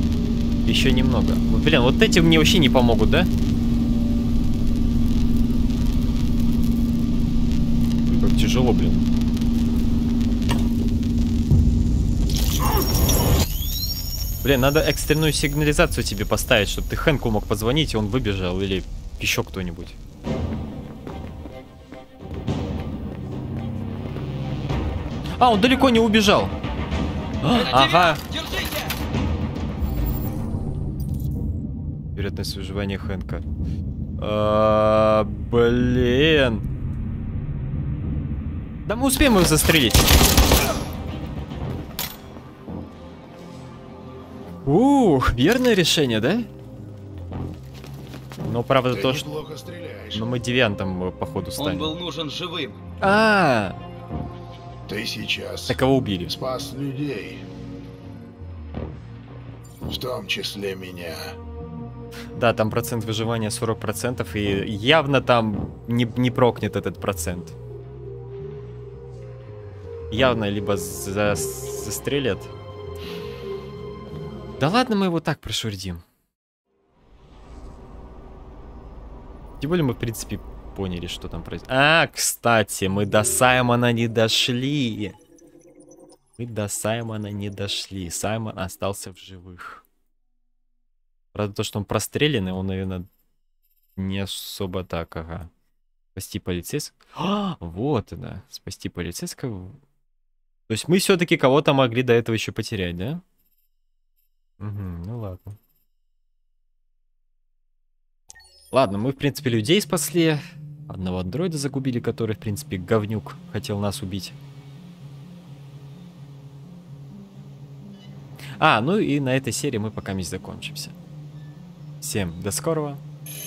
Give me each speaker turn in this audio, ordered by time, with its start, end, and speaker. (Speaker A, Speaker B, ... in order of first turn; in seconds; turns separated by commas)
Speaker A: 0.6-3.3, Speaker A: 8.0-9.1, Speaker A: 14.4-20.0, Speaker A: 25.4-26.5, Speaker A: 27.4-28.2, Speaker B: 27.5-28.9, Speaker A: 32.1-33.4, Speaker A: 34.2-36.6, Speaker A: 38.9-40.1, Speaker A: 44.6-46.5, Speaker A: 48.4-49.3, Speaker C: 48.9-50.3, Speaker A: 50.1-51.9, Speaker B: 51.6-52.8, Speaker A: 53.0-53.8, Speaker C: 54.9-57.4, Speaker A: 55.7-56.3, Speaker C: 59.9-61.3, Speaker A: 62.3-67.5, Speaker A: 70.1-72.5, Speaker A: 74.6-76.0, Speaker A: 79.6-85.2, Speaker A: 86.4-89.8, Speaker A: 91.3-93.0, Speaker A: 94.0-95.5, Speaker A: 96.1-99.8, Speaker A: 100.7-103.2, Speaker A: 104.6-105.6, Speaker A: 108.7-114.3, Speaker A: 118.6-120.9, Speaker A: 122.0-123.0